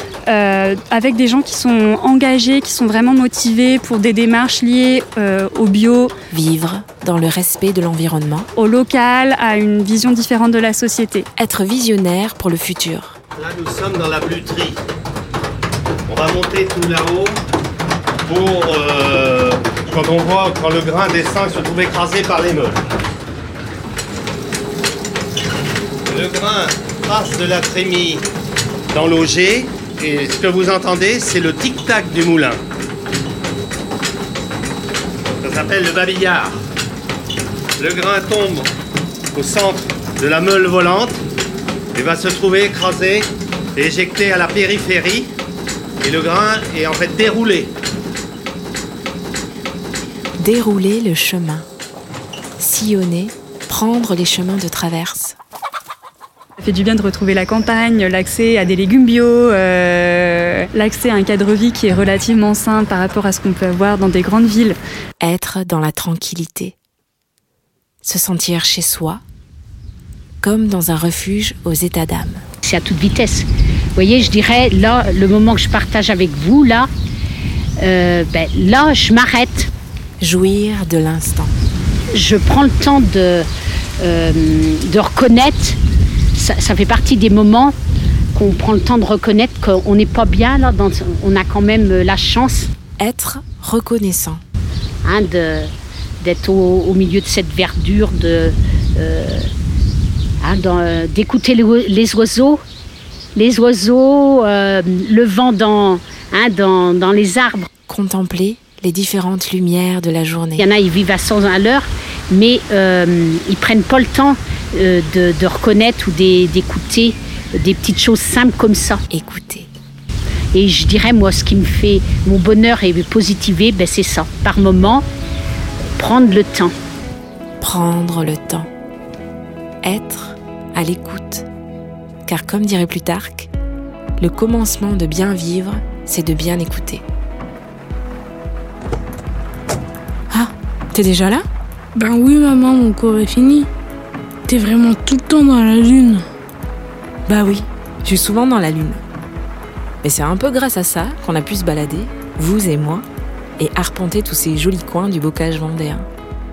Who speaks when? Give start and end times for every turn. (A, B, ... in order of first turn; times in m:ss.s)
0:00.3-0:06.1 A
0:06.3-0:08.5 B
0:08.6-0:11.3 A
0:11.4-0:13.2 B
0:13.4-0:14.7 C
0:16.1-0:17.3 C
0:18.3-0:22.8 C
0:26.1-0:28.2 C
0:28.9-0:32.6 C
0:35.4-0:36.5 C
0:37.8-0:38.6 C
0:39.4-0:41.2 C
0:42.0-0:43.2 C
0:43.8-0:45.3 C
0:46.0-0:47.7 C
0:50.4-0:51.7 B
0:52.6-0:55.4 B
0:56.6-1:04.8 A
1:05.2-1:06.8 B
1:08.0-1:09.2 B
1:10.4-1:12.4 B
1:12.6-1:16.9 D
1:17.8-1:19.7 D
1:20.2-1:21.5 B
1:22.1-1:23.5 D
1:24.0-1:25.8 D
1:26.4-1:27.7 D
1:28.3-1:32.7 D
1:33.0-1:34.4 B
1:35.0-1:39.5 D
1:40.4-1:42.6 D
1:43.4-1:47.7 D
1:47.9-1:50.7 B
1:50.6-1:59.0 D
1:59.1-1:59.7 B
2:00.5-2:05.0 D
2:06.0-2:06.7 D
2:07.6-2:08.7 B
2:09.8-2:11.5 B
2:12.3-2:13.5 B
2:14.2-2:17.0 B
2:20.3-2:21.5 B
2:22.0-2:23.7 E
2:24.5-2:26.3 E
2:27.3-2:29.0 B
2:30.0-2:33.0 B
2:33.6-2:36.1 B